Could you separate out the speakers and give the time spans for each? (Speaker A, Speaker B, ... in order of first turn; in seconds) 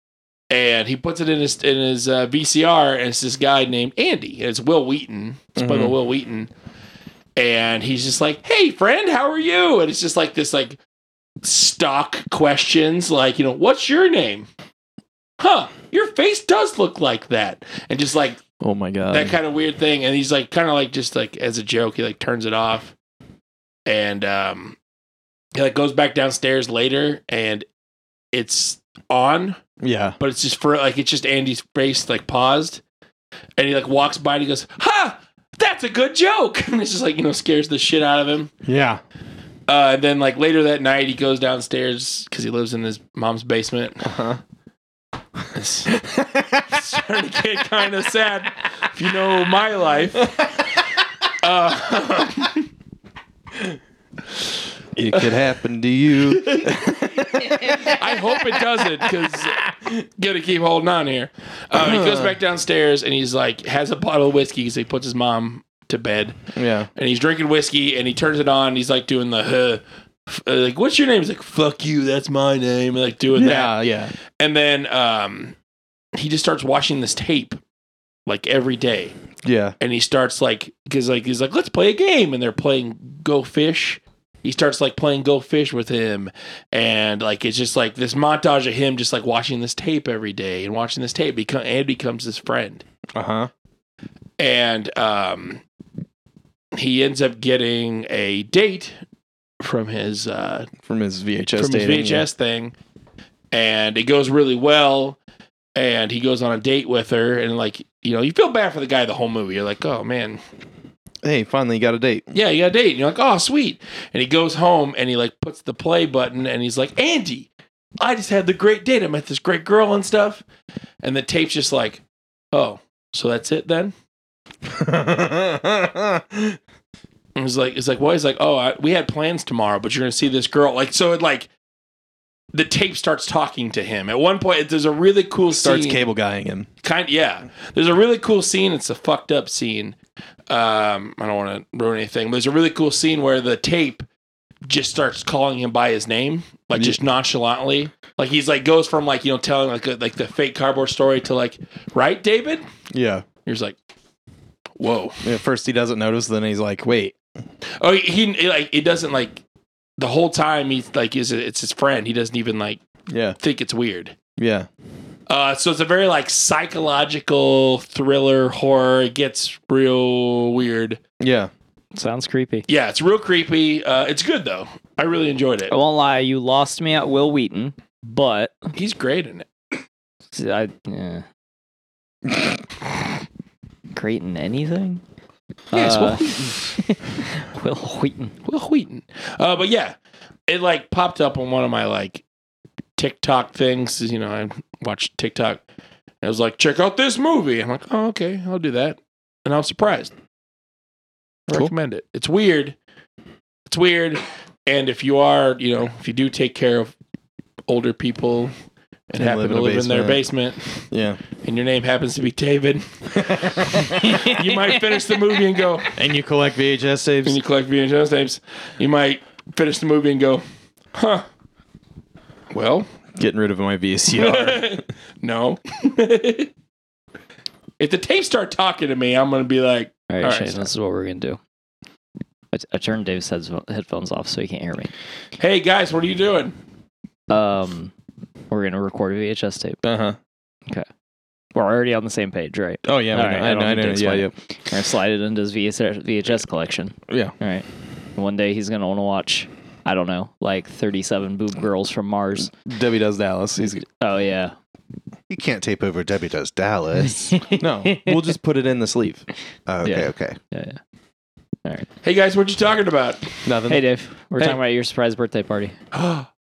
Speaker A: 0.5-6.5, 7.3-10.8, 11.4-14.5, 15.4-18.4, 19.1-22.9, 23.9-24.8, 25.5-27.6, 28.3-29.6, 30.2-32.8, 33.6-38.5, 39.7-44.1, 45.5-46.0, 46.7-50.6, 51.3-52.6, 56.2-56.8, 57.4-73.8, 74.4-75.5, 76.1-77.6, 78.2-79.1, 79.8-92.8, 94.4-95.6, 96.7-99.0, 99.6-100.7, 101.5-102.7, 103.5-105.2, 105.7-110.4, 112.3-120.4, 121.0-122.0, 122.5-123.9, 127.3-131.5, 132.5-136.1, 136.8-139.9, 140.5-144.0, 144.7-152.6, 153.4-153.7, 154.8-155.2, 157.8-159.4, 160.0-162.8, 163.4-164.2, 165.3-171.0, 172.7-175.7, 178.7-179.4, 185.7-186.6, 188.4-189.9, 190.5-192.2, 193.0-195.6, 196.2-200.1, 201.5-202.8, 203.7-206.9, 207.7-208.5, 209.1-210.9, 211.4-215.9, 217.2-221.2, 222.5-222.9, 224.1-226.5, 227.8-230.7, 235.4-236.5, 262.0-263.4, 265.9-266.3
Speaker B: 5.5-6.0, 18.6-19.4, 29.8-30.2, 38.6-39.0, 44.0-44.4, 45.9-46.8, 55.0-58.1, 61.7-62.3, 66.5-66.9, 73.3-74.1, 79.4-79.7, 93.1-93.5, 100.8-102.3, 111.2-112.3, 124.6-126.6, 135.5-136.7, 152.9-153.2, 155.2-157.1, 163.1-163.4, 164.4-164.7, 171.2-171.5, 185.9-186.1, 209.1-210.2, 210.9-211.2, 213.1-214.3, 215.9-217.4, 223.2-224.8, 239.8-240.2, 242.8-244.3, 247.1-247.3, 252.4-253.8, 257.6-259.2, 263.4-263.8
Speaker C: 171.9-172.6, 175.7-178.7, 180.3-181.2, 183.9-185.0, 185.7-188.3, 230.1-231.4, 232.5-234.9, 237.3-237.9, 238.5-239.8, 241.5-252.5, 253.6-254.5, 257.3-258.2, 259.8-260.8, 263.7-265.8
Speaker D: 255.3-257.5, 259.7-260.4